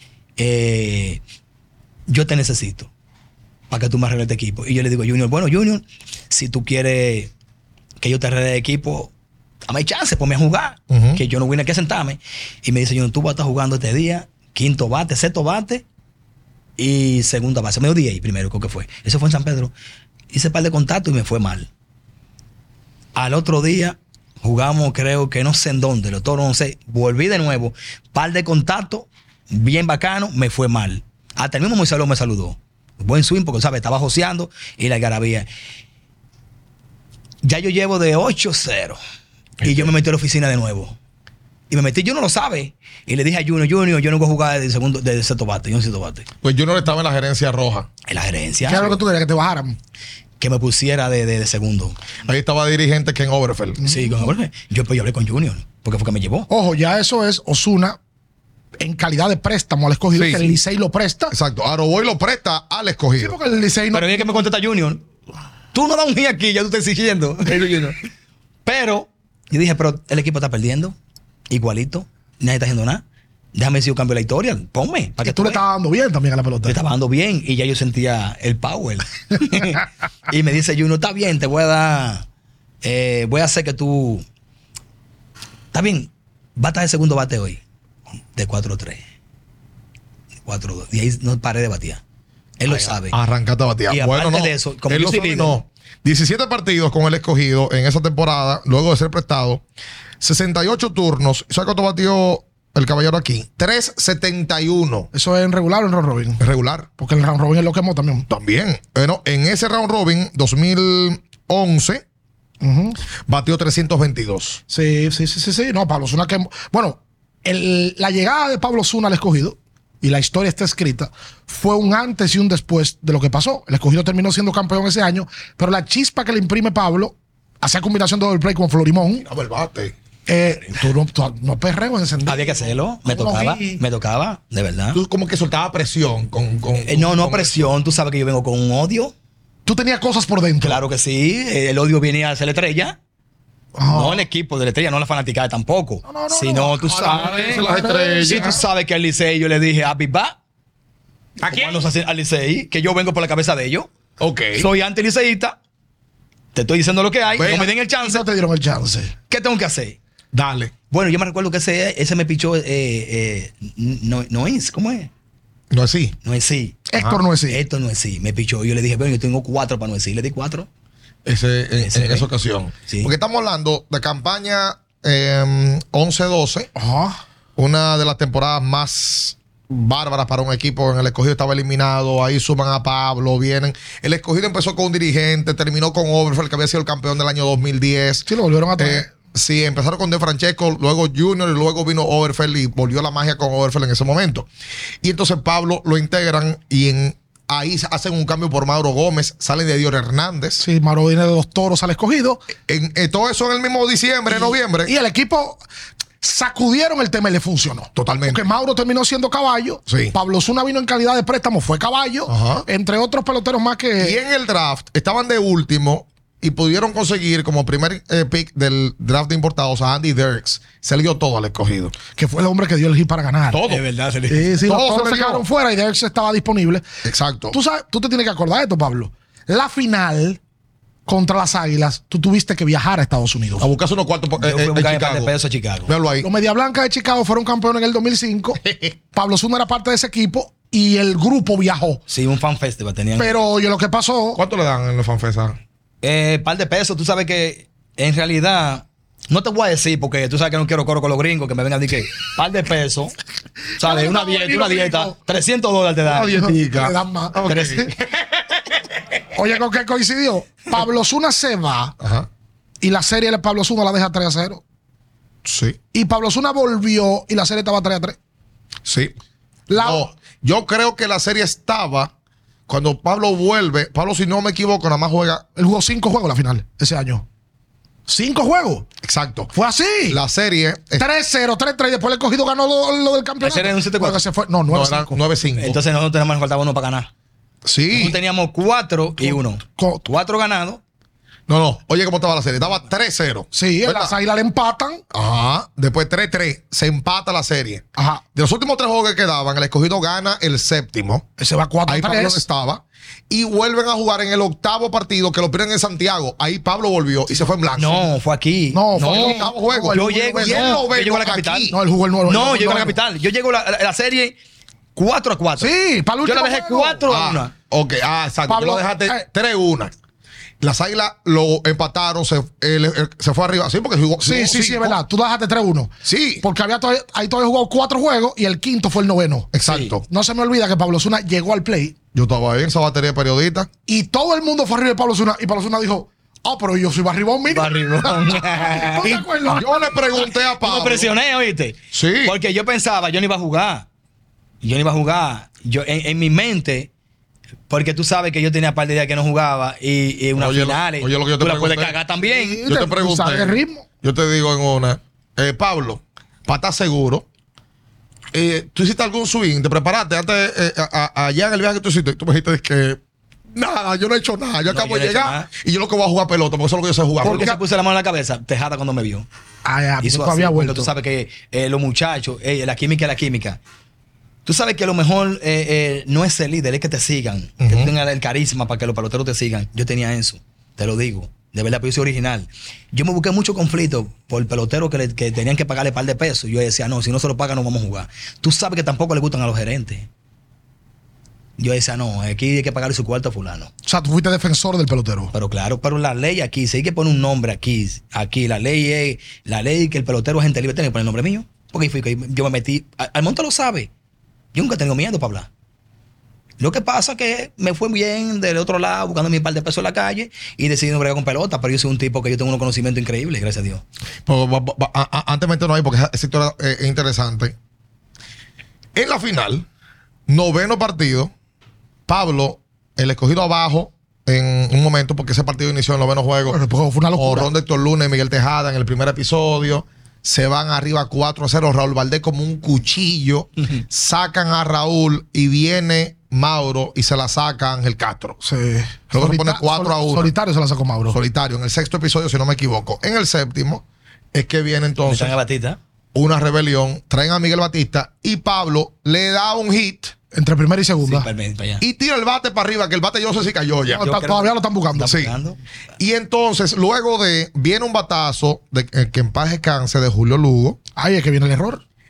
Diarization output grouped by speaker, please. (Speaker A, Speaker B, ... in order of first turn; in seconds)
Speaker A: 0.4-1.2, 2.1-2.9, 3.7-7.3, 8.0-9.1, 9.7-15.8, 16.8-19.7, 20.3-21.7, 23.1-35.5, 37.4-39.0, 39.6-41.0, 41.7-46.3, 48.1-49.0, 50.4-52.0, 53.9-56.5, 63.9-65.0, 65.7-67.9, 68.7-71.0, 71.5-73.0, 73.5-75.6, 76.7-82.3, 82.8-84.2, 85.7-87.6, 88.3-89.0, 90.5-92.0, 92.6-93.2, 93.9-95.6, 132.3-135.0, 136.9-139.1, 140.6-143.0, 143.9-150.4, 151.5-153.9, 154.5-155.6, 156.6-158.3, 159.3-160.0, 160.9-165.1, 166.2-166.9, 167.5-170.7, 171.8-172.3, 223.7-224.5, 234.4-235.9, 242.1-243.3, 246.0-253.1, 253.8-256.5, 257.4-257.9, 283.4-284.2, 285.6-287.1, 287.9-290.8, 307.8-311.7, 312.3-314.4, 314.9-315.7, 316.2-317.5, 329.7-329.9, 337.5-339.2, 340.6-343.9, 344.6-346.9, 347.7-352.6, 364.7-365.5, 367.2-369.3, 370.0-373.6, 374.4-390.1, 391.6-393.7, 395.3-403.9, 404.5-405.5, 406.6-413.8, 445.1-445.8, 451.0-451.8, 453.9-455.6
Speaker B: 10.9-11.2, 39.6-39.9, 46.4-47.9, 52.2-53.8, 60.1-60.5, 61.3-63.4, 67.6-67.9, 92.7-99.6, 100.2-105.1, 106.4-106.9, 108.3-112.0, 113.3-114.6, 129.2-129.9, 134.9-137.7, 146.8-148.6, 151.4-151.8, 154.2-154.7, 157.4-157.7, 160.3-160.7, 165.7-166.2, 171.2-176.7, 177.6-194.5, 195.0-200.6, 202.7-204.9, 207.9-208.4, 209.9-210.1, 212.3-212.7, 214.0-221.9, 223.5-223.8, 224.6-225.4, 227.1-227.6, 233.6-235.3, 235.9-236.3, 238.6-238.9, 244.4-245.6, 256.1-257.9, 262.0-262.3, 265.4-265.8, 268.9-269.1, 269.8-272.1, 272.7-275.4, 279.0-279.5, 280.1-281.1, 284.7-285.8, 287.6-288.2, 291.5-294.1, 295.1-297.8, 298.4-301.3, 301.9-308.1, 309.0-311.8, 317.1-319.9, 320.6-325.0, 326.1-326.4, 329.5-330.0, 332.1-333.7, 339.0-341.1, 341.9-342.4, 350.4-352.0, 352.7-357.3, 358.3-363.0, 363.5-367.5, 377.6-377.9, 414.3-417.6, 418.9-419.7, 420.3-421.3, 422.1-426.6, 427.2-438.4, 439.1-440.3, 441.1-445.4, 446.1-450.1, 451.8-454.1, 455.0-455.3, 456.0-460.8
Speaker C: 48.6-49.8, 53.8-54.3, 56.5-58.0, 58.8-61.3, 63.2-64.3, 75.2-76.8, 105.1-106.4, 107.0-108.3, 112.6-113.0, 114.7-129.2, 130.3-133.8, 139.7-140.8, 143.8-144.2, 146.1-148.6, 158.0-159.1, 166.9-167.6, 176.8-177.2, 188.3-189.1, 200.6-202.4, 204.3-205.6, 206.2-214.2, 222.1-223.6, 224.3-226.8, 227.5-230.4, 231.1-233.7, 236.2-242.0, 243.2-244.4, 253.8-255.2, 256.2-257.9, 259.3-261.9, 262.8-264.6, 265.9-268.2, 269.7-270.1, 275.6-277.2, 278.1-278.9, 279.5-280.2, 281.0-285.2, 289.2-290.0, 293.5-295.0, 297.9-298.2, 301.4-302.4, 308.7-310.8, 311.7-313.0, 315.6-317.0, 318.5-319.2, 324.2-329.5, 330.1-331.9, 333.9-340.1, 352.2-353.9, 367.2-367.6, 369.6-370.9, 393.9-395.3, 426.4-427.5, 438.4-441.2, 450.3-451.3, 453.9-455.2, 460.9-461.8